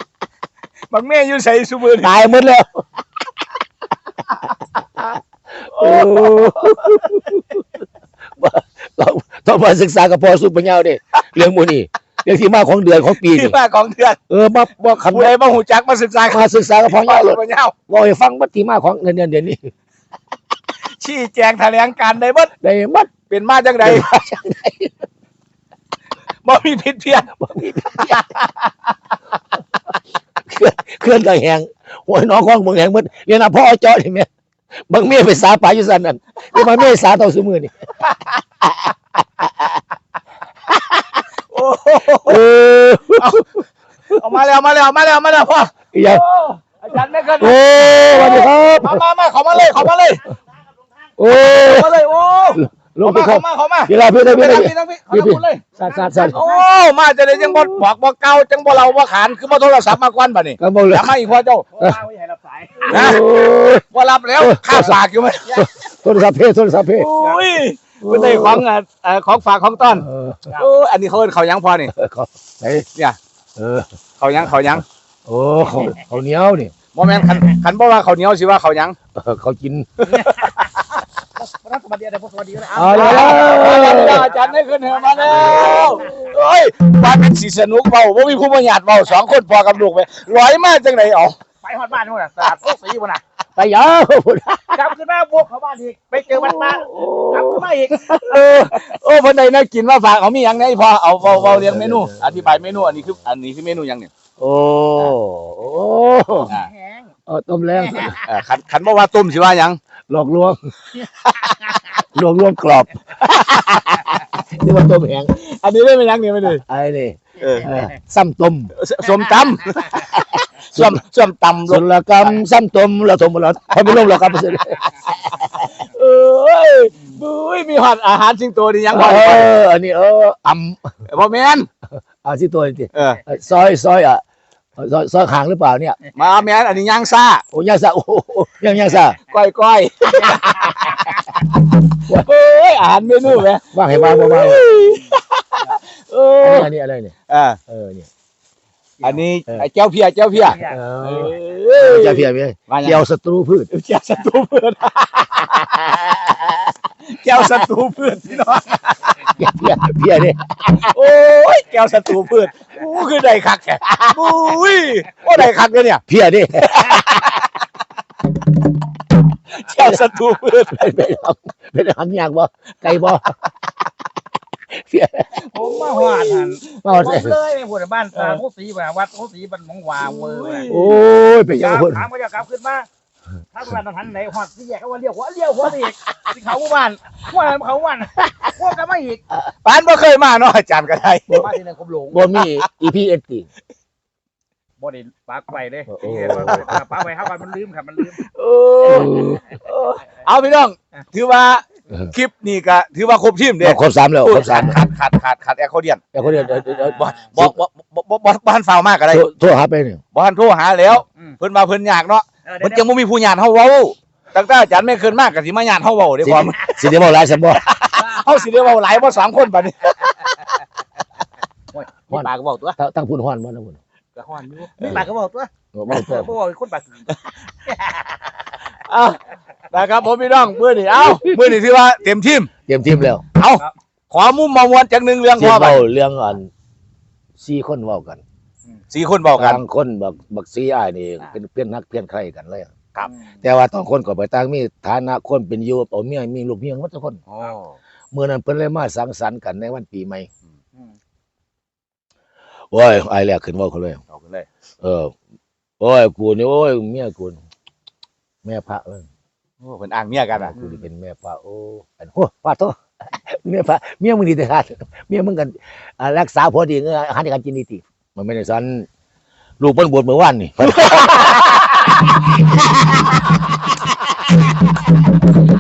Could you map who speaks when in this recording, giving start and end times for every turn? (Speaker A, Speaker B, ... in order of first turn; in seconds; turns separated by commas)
Speaker A: 0.9-2.2, Speaker B: 2.0-2.8, Speaker B: 5.0-7.6, Speaker A: 5.7-7.1, Speaker B: 8.4-13.6, Speaker A: 13.1-14.2, Speaker B: 14.3-15.3, Speaker A: 15.0-17.7, Speaker B: 16.3-19.7, Speaker A: 21.0-22.5, Speaker B: 22.6-23.1, Speaker A: 23.3-24.1, Speaker B: 23.8-24.9, Speaker A: 26.4-28.7, Speaker B: 27.4-28.2, Speaker B: 30.4-34.3, Speaker B: 34.9-37.7, Speaker A: 36.5-36.8, Speaker A: 41.5-42.4, Speaker B: 42.2-43.4, Speaker A: 43.2-50.3, Speaker B: 45.9-46.2, Speaker B: 47.4-49.0, Speaker B: 51.2-51.9, Speaker A: 51.6-55.7, Speaker B: 52.5-56.4, Speaker C: 55.8-56.6, Speaker A: 56.2-61.7, Speaker B: 57.5-57.7, Speaker B: 60.6-61.2, Speaker C: 61.7-63.0, Speaker A: 62.9-63.3, Speaker B: 62.9-63.9, Speaker A: 63.9-65.7, Speaker B: 64.4-64.9, Speaker B: 65.6-67.1, Speaker A: 66.9-71.9, Speaker B: 68.0-68.6, Speaker B: 69.9-70.5, Speaker B: 71.9-72.9, Speaker B: 73.6-73.9, Speaker A: 74.2-74.8, Speaker B: 74.4-74.8, Speaker B: 75.3-76.7, Speaker A: 76.9-79.0, Speaker B: 79.2-80.3, Speaker C: 80.1-80.8, Speaker C: 81.4-86.3, Speaker B: 82.7-84.3, Speaker A: 82.9-91.4, Speaker C: 91.6-93.2, Speaker B: 93.6-94.8, Speaker C: 94.7-98.2, Speaker B: 96.3-97.7, Speaker A: 98.1-104.1, Speaker B: 98.2-98.7, Speaker B: 101.2-102.4, Speaker B: 104.4-106.5, Speaker C: 106.5-107.1, Speaker B: 107.3-108.2, Speaker A: 108.1-109.8, Speaker B: 110.1-110.6, Speaker A: 111.2-111.5, Speaker B: 112.0-113.6, Speaker A: 113.2-114.2, Speaker B: 114.2-115.3, Speaker A: 115.3-116.6, Speaker B: 116.6-118.7, Speaker A: 117.4-117.7, Speaker A: 118.8-122.3, Speaker B: 120.8-121.0, Speaker B: 121.7-125.2, Speaker A: 125.7-129.5, Speaker B: 128.9-130.8, Speaker A: 131.1-131.7, Speaker B: 132.2-134.2, Speaker A: 132.9-133.2, Speaker B: 134.8-136.0, Speaker A: 136.1-137.4, Speaker B: 137.5-139.2, Speaker A: 139.3-146.7, Speaker B: 143.7-145.0, Speaker B: 146.4-147.1, Speaker A: 147.3-147.6, Speaker B: 147.7-148.1, Speaker A: 149.0-153.1, Speaker C: 150.4-150.8, Speaker B: 150.5-153.7, Speaker A: 153.7-159.3, Speaker B: 159.3-160.9, Speaker A: 160.7-166.0, Speaker B: 166.1-167.1, Speaker A: 166.6-167.5, Speaker A: 169.5-170.8, Speaker B: 169.8-173.3, Speaker B: 174.8-175.7, Speaker A: 175.5-176.8, Speaker C: 175.5-180.7, Speaker B: 176.8-177.4, Speaker A: 178.1-178.4, Speaker A: 180.0-181.0, Speaker B: 180.7-182.1, Speaker C: 181.6-182.9, Speaker C: 183.5-189.2, Speaker A: 189.6-191.5, Speaker C: 191.4-192.3, Speaker B: 192.1-193.5, Speaker A: 192.4-192.6, Speaker C: 194.8-198.2, Speaker B: 195.9-196.8, Speaker A: 196.0-196.6, Speaker A: 198.1-206.1, Speaker B: 198.9-199.4, Speaker C: 199.2-199.6, Speaker B: 203.6-204.8, Speaker B: 206.1-207.6, Speaker C: 206.3-207.2, Speaker A: 206.8-209.3, Speaker B: 209.1-210.0, Speaker A: 210.1-216.8, Speaker C: 212.5-212.8, Speaker B: 216.2-217.7, Speaker A: 217.5-220.4, Speaker C: 218.0-218.4, Speaker C: 221.7-222.8, Speaker B: 222.1-223.8, Speaker A: 224.2-225.0, Speaker C: 224.7-228.2, Speaker B: 224.8-225.1, Speaker B: 225.7-226.3, Speaker A: 228.9-229.2, Speaker A: 229.7-232.5, Speaker B: 232.7-233.2, Speaker A: 233.3-235.8, Speaker B: 235.4-236.5, Speaker B: 237.4-238.2, Speaker A: 238.9-239.7, Speaker B: 239.3-242.7, Speaker B: 243.4-247.2, Speaker A: 247.3-247.8, Speaker B: 248.1-250.3, Speaker B: 252.7-254.0, Speaker A: 254.1-254.5, Speaker B: 254.8-255.1, Speaker B: 255.8-257.4, Speaker B: 258.4-259.1, Speaker A: 259.6-260.8, Speaker B: 260.4-268.9, Speaker B: 269.6-272.1, Speaker A: 270.8-271.9